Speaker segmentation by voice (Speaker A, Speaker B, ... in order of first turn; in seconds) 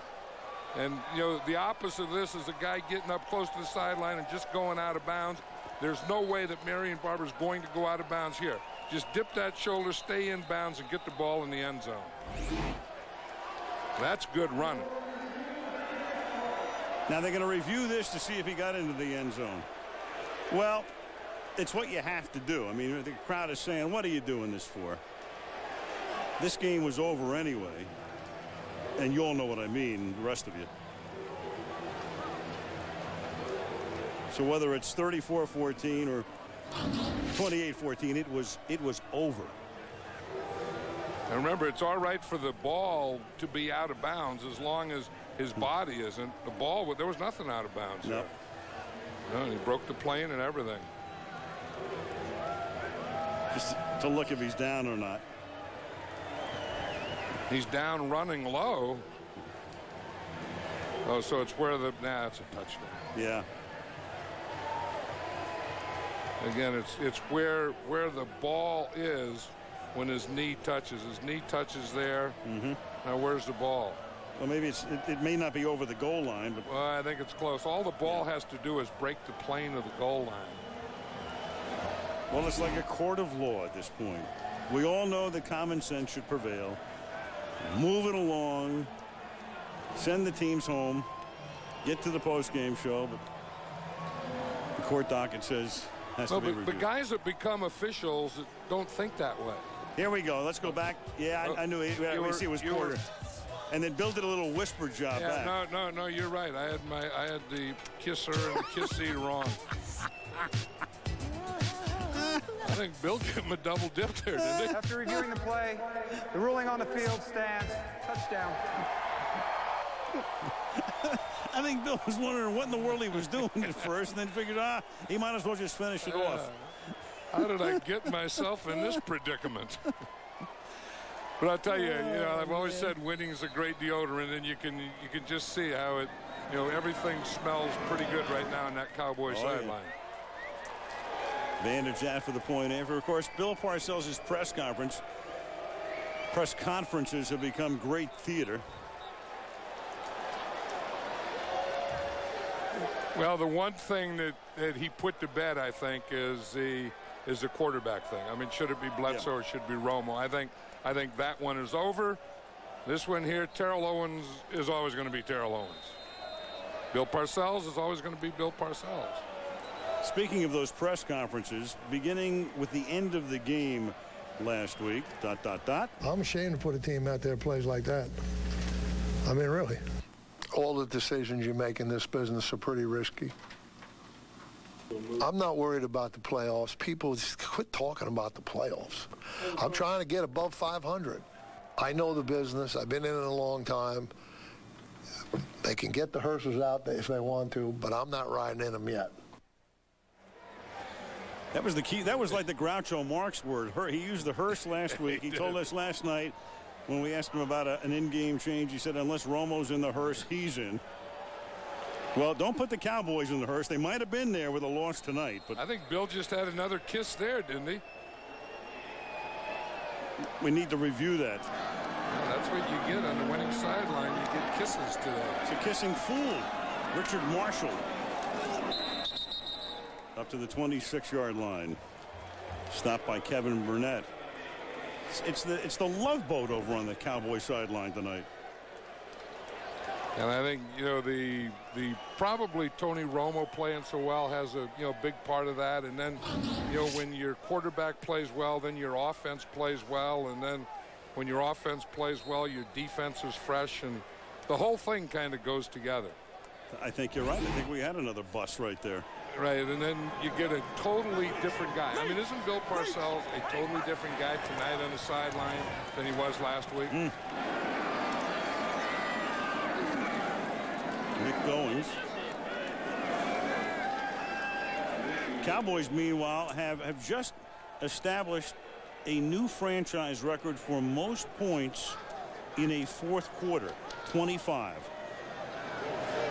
Speaker A: 0.7-12.1, 14.0-14.9, 41.3-48.3, 49.2-50.9, 57.5-59.0, 61.0-63.0, 66.4-72.4, 73.0-74.0, 76.7-80.6, 96.3-99.7, 101.4-103.0, 105.1-109.6, 112.6-114.8, 126.0-126.7, 127.3-129.9, 131.4-139.9, 153.1-162.2, 162.8-165.9, 166.9-169.2, 205.0-205.6, 215.6-217.8, 222.1-225.4, 240.2-256.1, 259.3-267.0
Speaker B: 17.1-19.7, 20.5-20.9, 21.6-25.0, 26.4-27.9, 29.0-30.7, 34.3-36.3, 37.3-39.5, 53.5-55.2, 63.1-63.5, 72.4-72.8, 74.4-76.7, 82.3-86.8, 87.6-88.9, 89.9-91.1, 91.8-93.2, 94.8-96.9, 100.0-103.0, 103.7-105.5, 120.4-126.5, 139.3-139.8, 141.6-145.0, 146.3-148.6, 170.0-175.9, 201.5-206.3, 206.9-210.8, 212.1-215.6, 220.4-221.5, 225.4-227.8, 230.2-231.8, 232.7-234.1, 235.1-238.3, 256.7-259.1, 266.9-267.1, 271.2-271.9, 275.4-282.0, 282.6-284.9
Speaker C: 114.7-118.7
Speaker D: 176.0-178.1, 179.2-179.8, 180.5-183.3, 185.2-191.2, 191.8-194.1, 195.6-199.1